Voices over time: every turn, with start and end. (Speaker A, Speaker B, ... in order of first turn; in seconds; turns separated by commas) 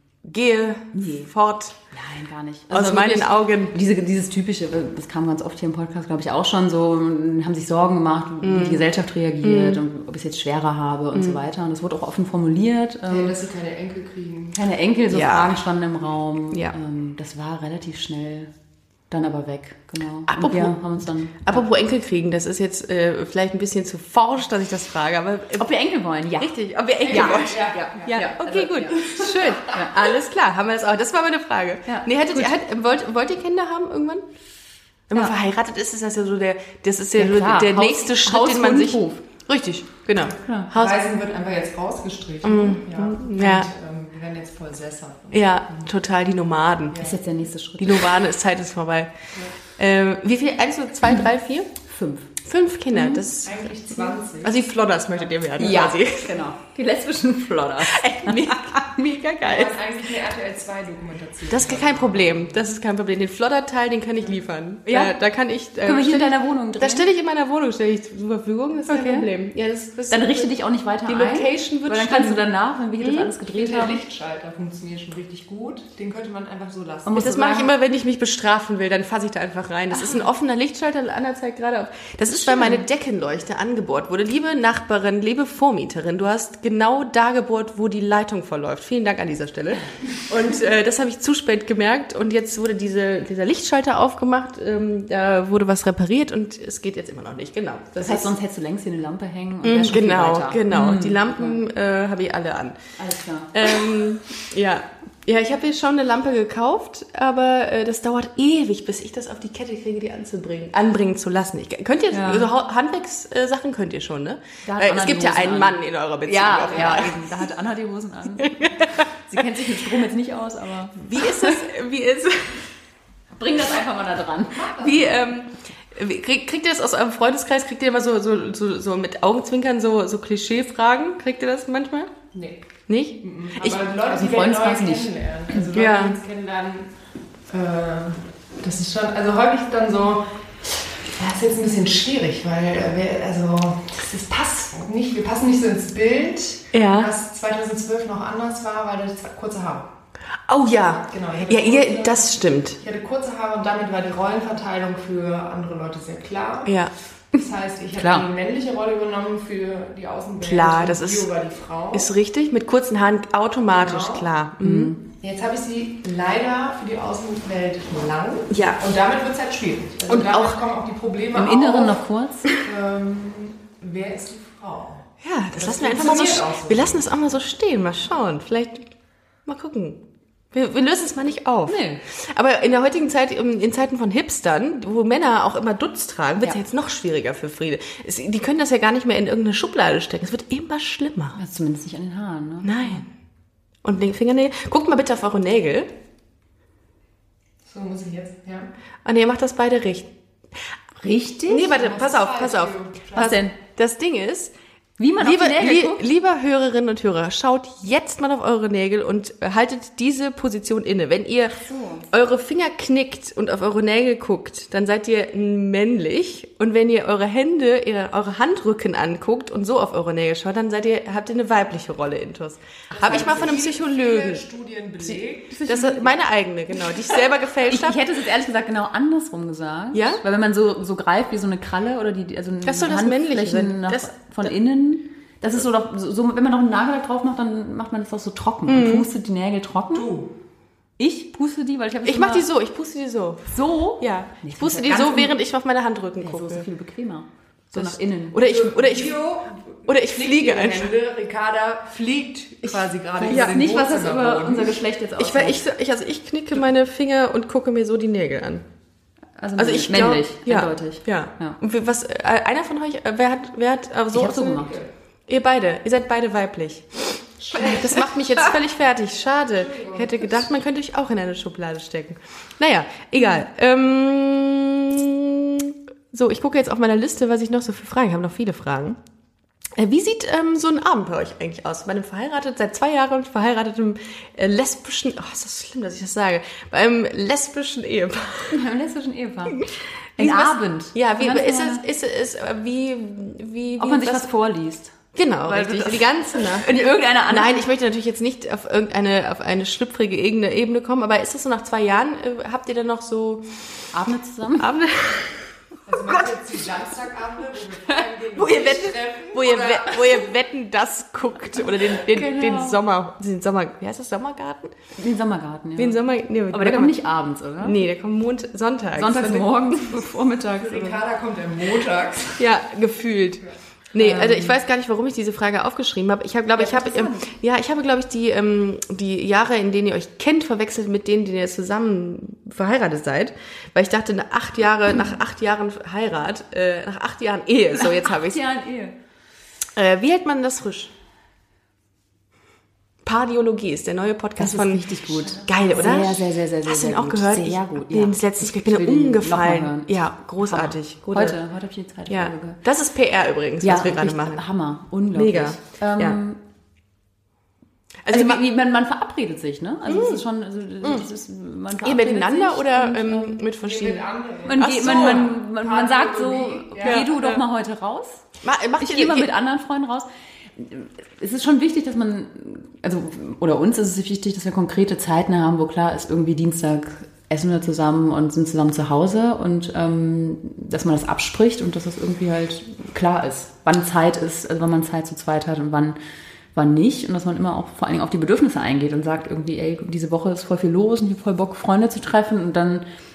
Speaker A: 0.2-1.8, Speaker B: 0.9-1.3, Speaker B: 1.9-13.4, Speaker A: 2.7-3.7, Speaker A: 8.4-8.8, Speaker A: 9.4-9.8, Speaker C: 13.1-14.6, Speaker B: 14.5-18.5, Speaker A: 15.1-15.6, Speaker B: 19.1-21.7, Speaker A: 20.3-20.8, Speaker A: 21.4-25.7, Speaker B: 25.6-30.0, Speaker A: 26.4-34.2, Speaker C: 27.0-28.3, Speaker B: 31.9-32.5, Speaker A: 35.1-41.0, Speaker B: 37.2-39.2, Speaker B: 40.4-40.7, Speaker C: 40.7-45.9, Speaker A: 42.4-43.7, Speaker A: 45.3-47.0, Speaker C: 46.9-47.2, Speaker B: 47.0-48.1, Speaker A: 47.8-51.7, Speaker B: 51.9-52.3, Speaker A: 52.4-56.4, Speaker B: 52.9-53.2, Speaker C: 53.4-54.6, Speaker B: 55.6-58.8, Speaker A: 57.9-59.8, Speaker C: 59.4-62.6, Speaker A: 61.5-70.5, Speaker B: 64.9-65.1, Speaker B: 65.8-67.1, Speaker B: 68.9-69.3, Speaker B: 70.1-74.0, Speaker A: 71.1-72.5, Speaker A: 73.0-73.3, Speaker C: 73.5-77.2, Speaker B: 77.0-77.7, Speaker A: 77.1-98.3, Speaker B: 79.9-80.2, Speaker B: 82.4-82.8, Speaker B: 97.9-101.6, Speaker A: 99.6-102.8, Speaker B: 103.0-103.5, Speaker A: 103.5-117.2, Speaker B: 112.1-112.5, Speaker B: 114.6-121.6, Speaker A: 118.4-119.1, Speaker A: 121.0-122.7, Speaker B: 123.4-124.7, Speaker C: 124.5-125.2, Speaker A: 124.8-132.1, Speaker C: 132.3-132.6, Speaker A: 132.9-133.2, Speaker C: 133.2-136.9, Speaker B: 133.6-135.6, Speaker A: 135.7-136.2, Speaker C: 137.5-149.9, Speaker A: 146.7-147.1, Speaker A: 150.5-152.8, Speaker C: 151.1-152.3, Speaker C: 152.8-156.7, Speaker A: 156.7-156.9, Speaker C: 157.3-162.1, Speaker B: 158.0-158.2, Speaker A: 160.4-161.3, Speaker A: 161.9-164.9, Speaker C: 163.7-164.3, Speaker B: 164.6-165.0, Speaker C: 165.2-172.0, Speaker A: 168.5-168.8, Speaker A: 170.1-170.6, Speaker B: 171.3-172.5, Speaker C: 172.6-177.1, Speaker A: 175.2-178.9, Speaker A: 179.4-180.0, Speaker A: 180.5-191.4, Speaker B: 181.7-182.0, Speaker B: 191.3-193.0, Speaker A: 192.6-193.1, Speaker A: 193.8-195.9, Speaker C: 197.6-198.7, Speaker A: 199.0-200.1, Speaker B: 201.0-201.7, Speaker A: 201.5-204.5, Speaker C: 201.7-203.4, Speaker B: 203.2-203.6, Speaker B: 205.0-206.0, Speaker A: 205.2-224.4, Speaker B: 211.7-212.0, Speaker C: 222.9-225.8, Speaker A: 225.0-228.0, Speaker B: 225.6-226.1, Speaker B: 227.7-240.1, Speaker A: 229.9-230.2, Speaker A: 232.6-234.5, Speaker A: 238.7-239.1, Speaker C: 239.9-240.3, Speaker B: 241.0-242.5, Speaker A: 242.0-246.7, Speaker B: 243.5-245.3, Speaker B: 246.2-248.4, Speaker A: 247.7-249.2, Speaker C: 248.4-254.8, Speaker A: 249.9-250.9, Speaker B: 253.2-255.6, Speaker A: 253.3-253.6, Speaker A: 255.2-258.6, Speaker B: 259.4-261.6, Speaker A: 259.6-264.7, Speaker B: 264.1-264.8, Speaker C: 264.6-264.9, Speaker A: 265.3-279.0, Speaker C: 267.4-268.2, Speaker C: 269.4-270.4, Speaker A: 279.8-288.6, Speaker B: 288.5-289.6, Speaker A: 289.6-294.3, Speaker B: 290.2-291.8, Speaker B: 293.8-294.9, Speaker A: 295.1-303.8, Speaker B: 295.5-297.7, Speaker B: 303.9-304.7, Speaker A: 304.6-305.5, Speaker C: 305.9-310.2, Speaker A: 308.3-314.8, Speaker B: 311.9-312.8, Speaker B: 314.9-316.0, Speaker A: 315.8-317.0, Speaker B: 316.5-317.8, Speaker A: 317.6-320.0, Speaker B: 318.9-320.9, Speaker C: 320.6-322.5, Speaker A: 322.4-338.4, Speaker B: 323.9-324.5, Speaker B: 326.5-327.3, Speaker B: 337.8-338.9, Speaker A: 339.8-340.9, Speaker A: 343.0-351.4, Speaker B: 344.4-349.9, Speaker B: 350.4-352.6, Speaker A: 352.1-354.4, Speaker B: 353.6-356.4, Speaker A: 355.1-356.2, Speaker A: 358.0-358.4, Speaker B: 358.1-363.4, Speaker A: 359.9-360.2, Speaker A: 361.8-365.3, Speaker C: 363.6-367.1, Speaker B: 364.4-368.2, Speaker A: 366.8-367.4, Speaker A: 368.4-369.3, Speaker B: 368.8-386.0, Speaker B: 386.5-392.9